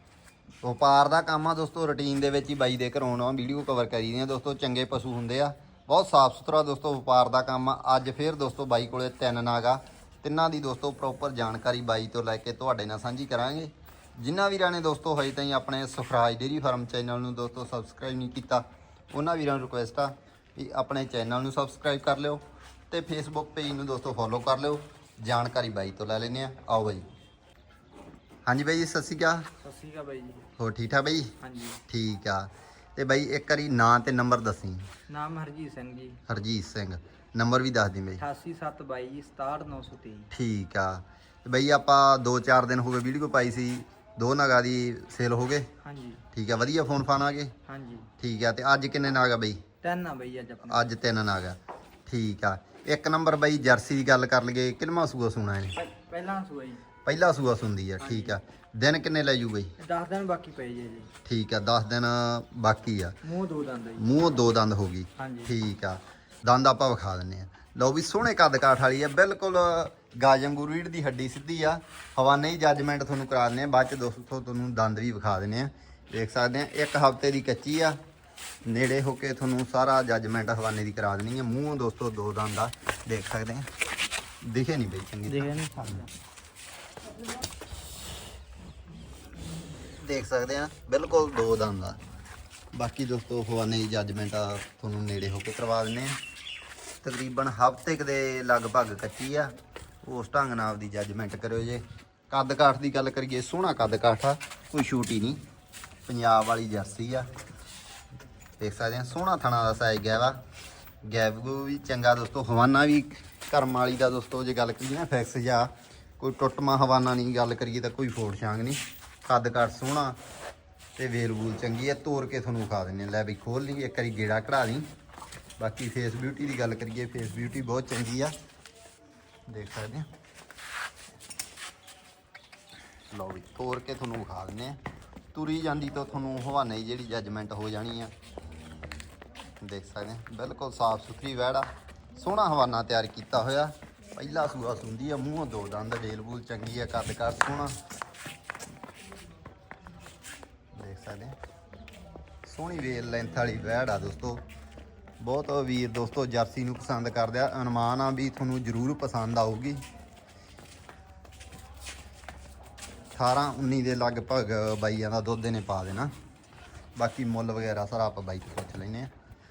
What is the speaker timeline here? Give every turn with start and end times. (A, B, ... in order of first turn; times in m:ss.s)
0:00.6-0:27.1 A
0:28.4-0:29.5 A
0:29.6-0:30.5 B
0:30.6-0:31.4 A
0:31.4-0:31.8 B
0:31.9-0:34.9 A
0:35.1-0:36.2 B
0:36.3-0:38.2 A
0:38.2-0:40.3 B
0:40.3-0:45.7 A
0:45.8-0:46.2 B
0:46.3-0:47.5 A
0:47.7-0:48.1 B
0:48.2-0:49.6 A
0:49.8-0:50.9 B
0:50.6-0:55.8 A
0:55.8-0:56.8 B
0:57.0-0:59.7 A
0:58.0-0:58.4 B
0:59.8-1:01.1 B
1:01.2-1:03.2 A
1:03.2-1:04.2 B
1:04.0-1:18.0 A
1:05.2-1:05.5 B
1:18.6-1:23.7 A
1:24.4-1:26.1 A
1:30.0-1:32.0 A
1:32.7-1:36.2 A
1:37.0-1:45.4 A
1:46.1-1:47.3 A
1:48.6-1:50.4 A
1:51.0-2:00.2 A
2:01.0-2:04.9 A
2:05.6-2:08.4 A
2:09.5-2:10.1 A
2:13.1-2:14.8 A
2:15.3-2:18.1 A
2:19.6-2:27.8 A
2:30.8-2:31.4 A
2:32.4-2:34.4 A
2:35.2-2:39.8 A
2:43.2-2:46.1 A
2:47.0-2:49.1 A